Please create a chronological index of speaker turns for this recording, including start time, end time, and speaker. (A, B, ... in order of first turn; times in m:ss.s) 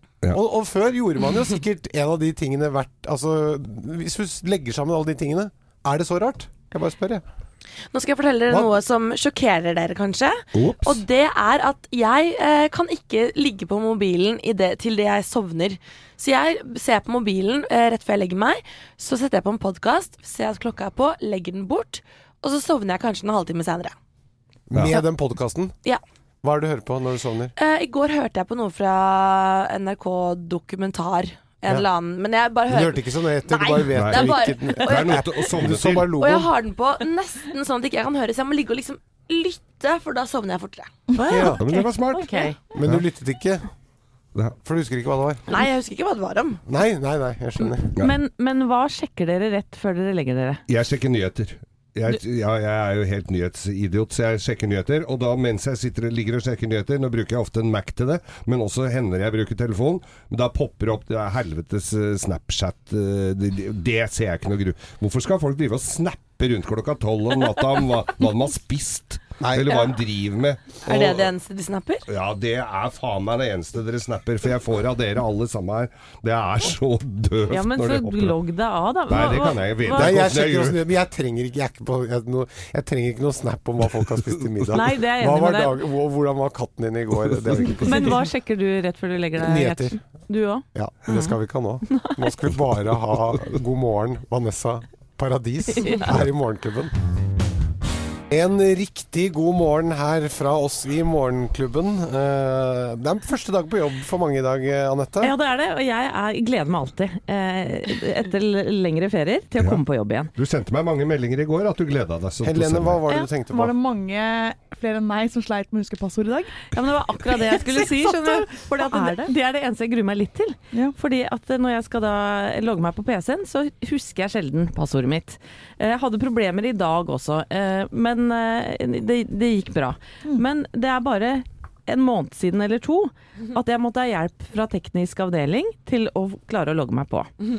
0:00.3-0:07.2 A
0:07.9-0:23.9 B
0:10.5-0:11.0 C
0:24.7-0:25.7 A
0:26.4-0:27.5 A
0:27.6-0:35.5 B
0:32.7-0:36.5 A
0:33.9-0:36.1 C
0:36.2-0:40.9 B
0:41.2-0:42.6 D
0:41.3-0:41.6 A
0:41.4-0:42.3 C
0:42.7-0:43.7 A
0:44.6-0:45.4 A
0:45.5-0:46.6 B
0:46.7-0:47.9 A
0:48.0-0:50.6 D
0:50.7-1:11.1 C
1:09.4-1:09.8 A
1:10.8-1:12.0 B
1:12.1-1:18.4 C
1:17.5-1:20.1 D
1:19.1-1:20.8 C
1:19.9-1:28.2 A
1:24.7-1:25.8 D
1:27.8-1:31.3 D
1:29.4-1:30.0 A
1:30.7-1:36.9 A
1:31.9-1:32.1 D
1:35.8-1:36.1 D
1:38.3-1:45.3 A
1:45.2-1:50.3 D
1:50.3-1:53.0 C
1:52.4-1:53.7 A
1:53.1-1:56.7 E
1:56.7-2:17.3 D
1:57.3-1:59.3 E